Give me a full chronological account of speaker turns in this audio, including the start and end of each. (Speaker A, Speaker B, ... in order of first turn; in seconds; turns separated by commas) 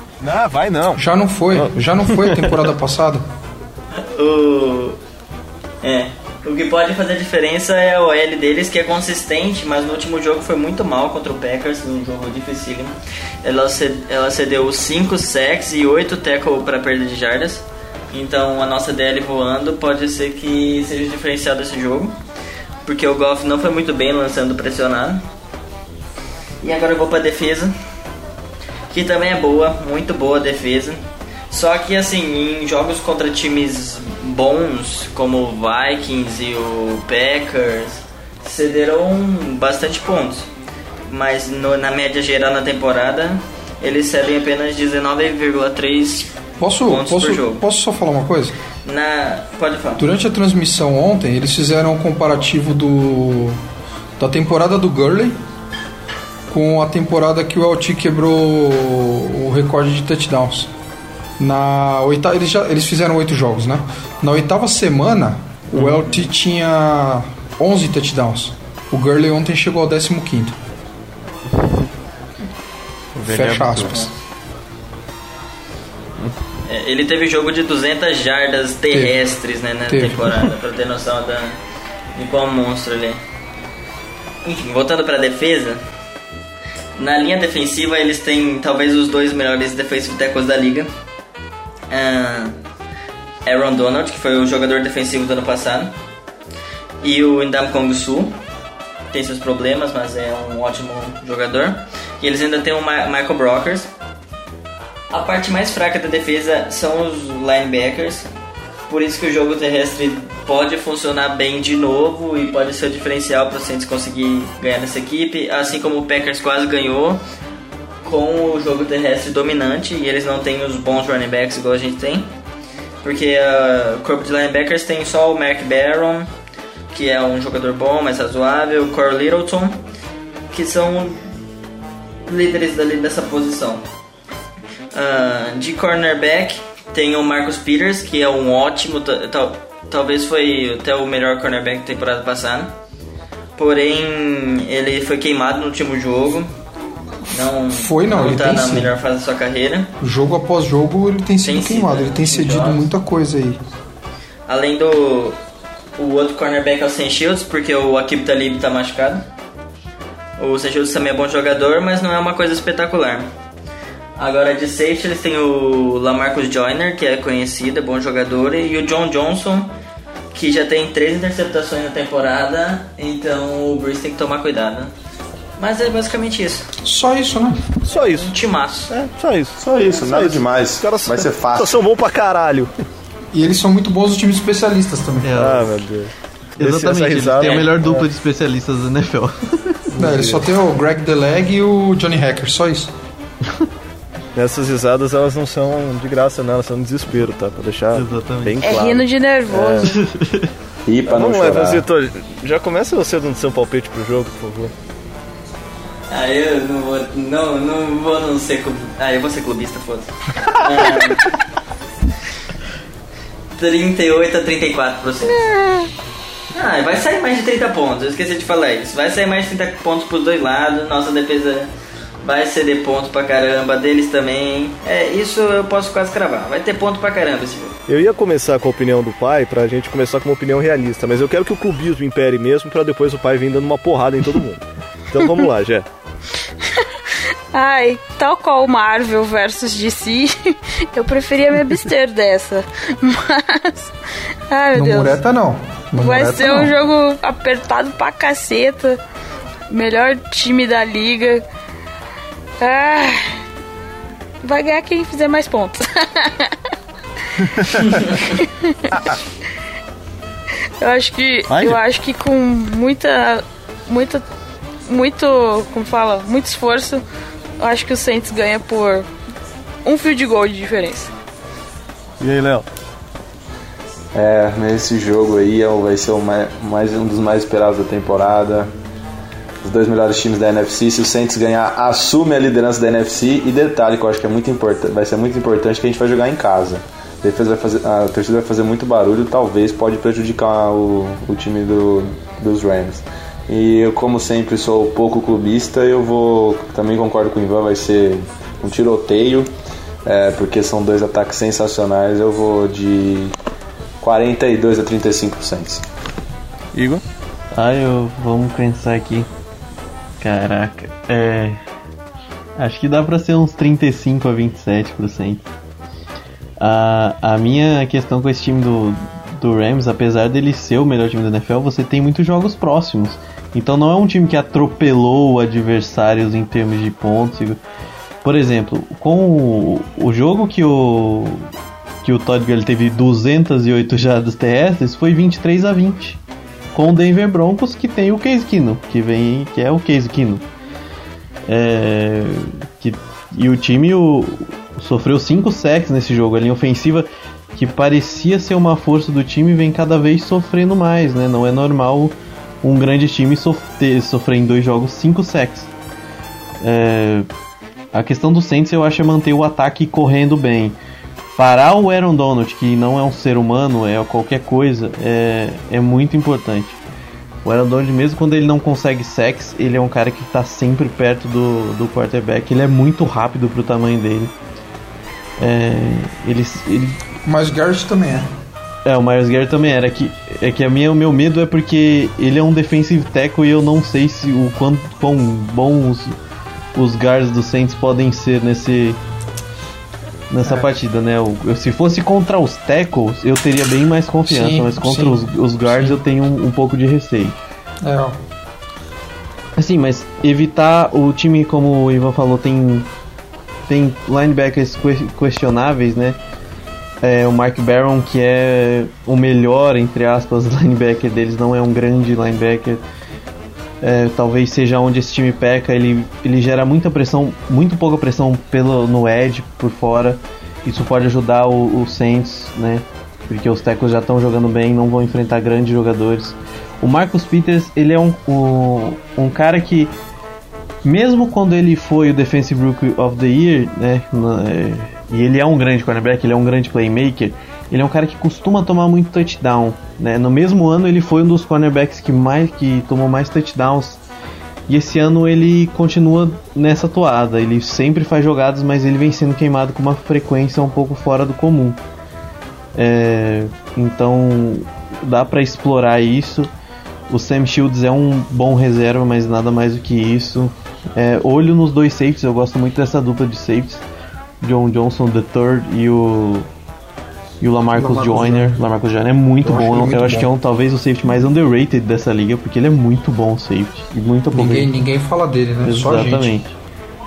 Speaker A: 0.2-1.0, Speaker B: 1.0-3.3, Speaker C: 4.0-5.0, Speaker C: 5.8-22.2, Speaker C: 22.9-25.2, Speaker C: 26.6-27.7, Speaker C: 28.9-31.0, Speaker C: 31.5-40.5, Speaker C: 41.1-46.3, Speaker B: 46.6-48.6, Speaker C: 46.9-47.6, Speaker C: 48.9-50.0, Speaker B: 50.0-53.6, Speaker B: 54.2-55.4, Speaker B: 56.5-60.7, Speaker B: 61.4-70.6, Speaker D: 65.8-66.0, Speaker D: 73.2-74.1, Speaker B: 73.2-74.1, Speaker C: 73.8-74.1, Speaker C: 76.7-81.6, Speaker B: 78.9-79.2, Speaker B: 79.9-80.5, Speaker C: 82.2-83.2, Speaker C: 84.5-85.8, Speaker C: 87.0-90.9, Speaker C: 91.9-92.6, Speaker C: 93.5-95.9, Speaker C: 97.0-98.3, Speaker C: 99.1-103.9, Speaker C: 105.1-108.3, Speaker C: 108.9-117.2, Speaker C: 118.0-122.3, Speaker C: 123.0-126.3, Speaker C: 126.9-129.8, Speaker C: 130.5-131.2, Speaker C: 132.3-133.8, Speaker C: 134.9-142.7, Speaker C: 143.6-146.5, Speaker C: 147.3-149.9, Speaker B: 147.7-148.9, Speaker B: 150.0-153.6, Speaker C: 151.4-152.9, Speaker C: 154.5-155.4, Speaker C: 156.0-159.3, Speaker C: 160.4-163.3, Speaker C: 164.2-169.7, Speaker C: 170.3-174.9, Speaker C: 175.6-176.7, Speaker B: 176.8-177.7, Speaker A: 177.8-178.4, Speaker C: 178.2-178.9, Speaker A: 178.9-182.7, Speaker E: 179.6-181.8, Speaker B: 183.3-185.4, Speaker D: 185.2-185.7, Speaker A: 185.3-188.1, Speaker D: 186.6-190.3, Speaker C: 187.4-187.7, Speaker A: 190.0-190.4, Speaker B: 190.0-192.9, Speaker A: 194.3-199.9, Speaker D: 197.9-198.8, Speaker F: 198.6-200.0, Speaker D: 199.8-200.5, Speaker E: 200.9-201.8, Speaker A: 201.1-204.7, Speaker C: 206.1-211.3, Speaker C: 213.6-215.5, Speaker C: 216.5-221.7, Speaker C: 222.2-227.8, Speaker A: 227.9-235.9, Speaker F: 236.8-243.9, Speaker F: 244.5-245.2, Speaker B: 244.7-246.8, Speaker F: 246.0-249.0, Speaker F: 249.7-251.4, Speaker F: 252.6-253.2, Speaker F: 254.4-256.6, Speaker A: 257.4-258.1, Speaker F: 258.4-258.9, Speaker F: 260.8-264.2, Speaker A: 261.5-261.8, Speaker F: 264.9-267.0, Speaker F: 267.6-269.1, Speaker F: 269.9-271.1, Speaker A: 272.2-272.7, Speaker E: 274.1-278.7, Speaker E: 279.6-299.5, Speaker E: 300.1-303.3, Speaker E: 304.0-305.9, Speaker A: 306.7-307.0, Speaker D: 307.5-309.3, Speaker D: 310.2-311.6, Speaker D: 312.6-315.4, Speaker D: 316.6-327.6, Speaker D: 328.2-331.5, Speaker D: 332.0-336.2, Speaker D: 336.7-340.4, Speaker D: 341.5-355.7, Speaker D: 356.6-357.3, Speaker D: 357.9-360.8, Speaker D: 361.4-366.8, Speaker D: 367.4-374.3, Speaker D: 375.4-377.0, Speaker B: 377.2-378.3, Speaker D: 378.9-386.1, Speaker D: 386.8-389.0, Speaker D: 390.3-397.4, Speaker B: 394.3-396.0, Speaker B: 397.8-398.2, Speaker D: 399.6-402.9, Speaker D: 403.7-406.2, Speaker D: 407.0-412.8, Speaker D: 413.8-429.9, Speaker D: 430.8-444.0, Speaker D: 444.7-451.8, Speaker D: 452.8-456.5, Speaker D: 457.1-463.8, Speaker D: 464.4-466.5, Speaker D: 467.4-474.7, Speaker B: 467.7-468.6, Speaker B: 469.4-470.3, Speaker B: 474.3-476.4, Speaker D: 475.6-476.6